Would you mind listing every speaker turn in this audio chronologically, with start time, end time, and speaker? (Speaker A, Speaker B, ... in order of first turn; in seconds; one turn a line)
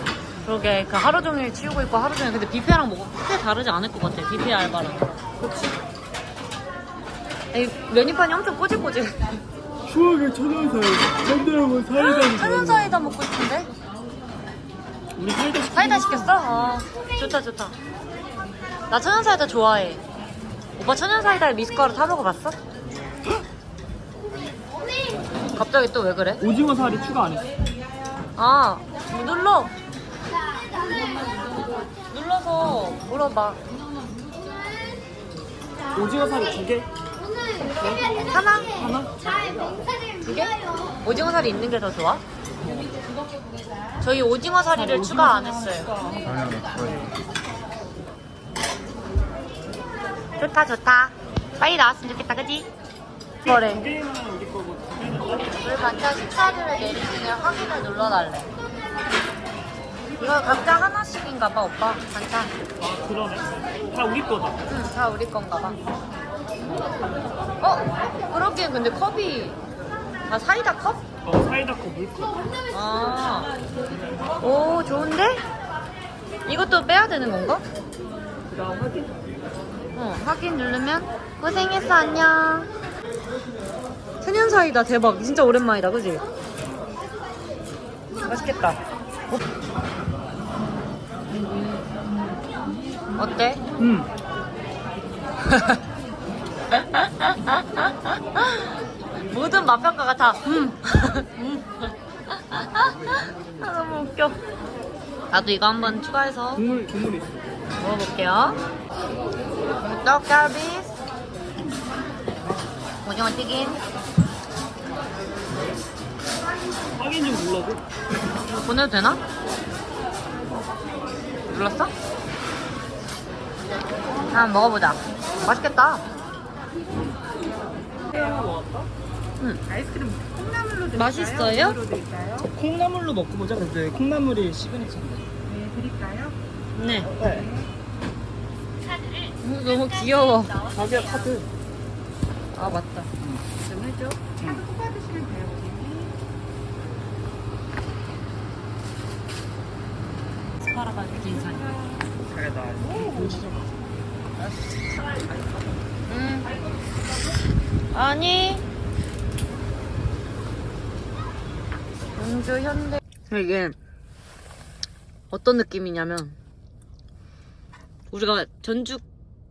Speaker A: 0.4-5.2
Speaker B: 5.4-5.8
Speaker A: 7.5-9.4
Speaker B: 9.8-13.1
Speaker A: 11.9-13.7
Speaker B: 15.1-16.4
Speaker A: 15.7-17.8
Speaker A: 18.9-20.0
Speaker A: 20.8-22.6
Speaker A: 25.5-26.4
Speaker B: 26.4-27.5
Speaker A: 28.4-29.7
Speaker A: 32.1-33.6
Speaker B: 35.9-36.9
Speaker B: 37.8-39.1
Speaker A: 38.3-39.0
Speaker A: 40.2-42.2
Speaker A: 44.0-45.9
Speaker B: 44.7-47.2
Speaker A: 50.4-52.7
Speaker B: 53.4-55.6
Speaker A: 53.4-53.9
Speaker A: 55.6-58.5
Speaker A: 60.2-62.5
Speaker B: 62.8-64.6
Speaker A: 64.7-65.8
Speaker A: 67.6-69.6
Speaker A: 70.3-71.0
Speaker B: 71.2-72.5
Speaker A: 72.7-73.5
Speaker A: 74.4-75.4
Speaker A: 76.5-77.6
Speaker B: 78.5-79.1
Speaker A: 79.9-82.7
Speaker A: 84.2-86.2
Speaker A: 88.2-88.8
Speaker A: 93.2-93.6
Speaker B: 93.8-94.1
Speaker A: 95.5-95.8
Speaker A: 96.7-98.7
Speaker A: 99.3-104.4
Speaker A: 105.3-106.6
Speaker B: 106.5-107.5
Speaker A: 107.8-108.6
Speaker A: 109.9-111.0
Speaker A: 113.0-113.8
Speaker B: 116.9-117.8
Speaker A: 118.6-119.2
Speaker A: 121.5-121.9
Speaker A: 124.3-126.0
Speaker B: 128.1-128.9
Speaker C: 129.7-132.5
Speaker A: 130.9-131.8
Speaker B: 132.5-135.2
Speaker C: 135.4-136.4
Speaker A: 136.8-137.1
Speaker B: 137.2-137.5
Speaker C: 137.2-137.7
Speaker A: 139.4-140.7
Speaker B: 140.7-141.5
Speaker A: 142.5-143.1
Speaker B: 143.2-143.4
Speaker A: 143.7-144.2
Speaker C: 144.1-146.2
Speaker B: 144.4-144.7
Speaker A: 150.6-151.8
Speaker C: 151.7-152.1
Speaker B: 152.2-153.7
Speaker C: 152.8-153.5
Speaker B: 154.4-155.7
Speaker A: 156.1-156.5
Speaker B: 156.4-157.4
Speaker A: 157.9-158.6
Speaker A: 162.2-163.8
Speaker A: 165.3-166.4
Speaker A: 168.1-169.0